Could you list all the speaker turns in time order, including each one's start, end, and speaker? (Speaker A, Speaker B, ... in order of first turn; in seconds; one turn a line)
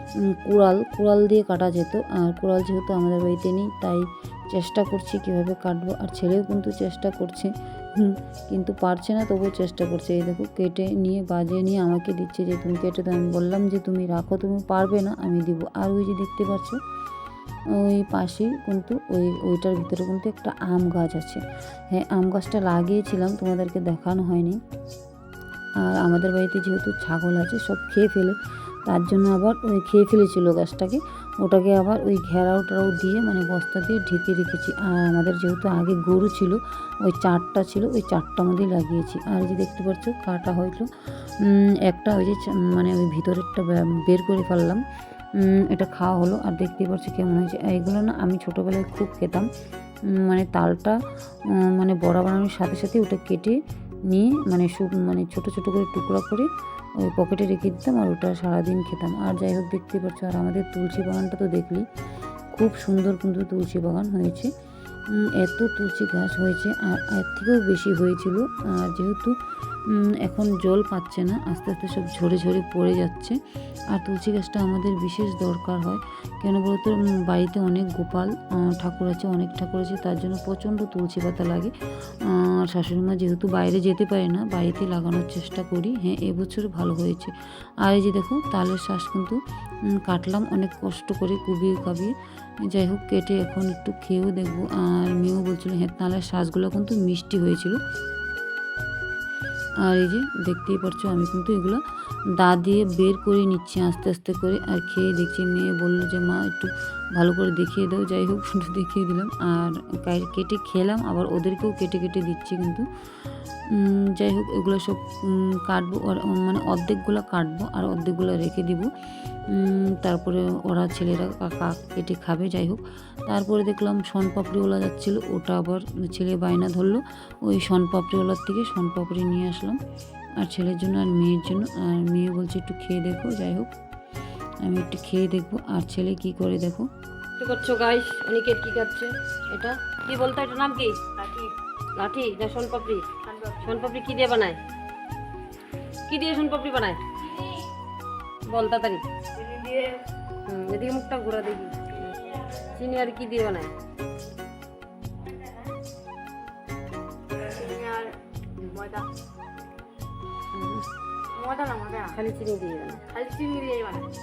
Speaker A: 0.3-16.8
Speaker A: 17.8-24.6
Speaker A: 25.8-44.8
Speaker A: 45.7-49.5
Speaker A: 50.1-51.0
Speaker A: 51.6-56.5
Speaker A: 57.0-61.9
Speaker A: 62.5-64.5
Speaker A: 65.2-69.4
Speaker A: 69.9-73.4
Speaker A: 73.9-81.7
Speaker A: 82.2-87.3
Speaker A: 87.8-89.4
Speaker A: 90.0-92.1
Speaker A: 92.7-97.8
Speaker A: 99.8-101.8
Speaker A: 102.4-112.9
Speaker A: 113.8-118.9
Speaker A: 119.5-129.8
Speaker A: 130.4-133.7
Speaker A: 134.6-136.9
Speaker B: 137.4-141.0
Speaker C: 141.2-141.5
Speaker B: 141.9-143.1
Speaker C: 143.2-143.7
Speaker B: 143.6-144.6
Speaker B: 146.1-147.0
Speaker B: 148.5-149.0
Speaker C: 149.3-150.0
Speaker B: 150.4-153.7
Speaker C: 157.4-159.1
Speaker B: 160.5-160.9
Speaker C: 161.3-162.2
Speaker B: 162.1-163.0
Speaker C: 163.1-164.1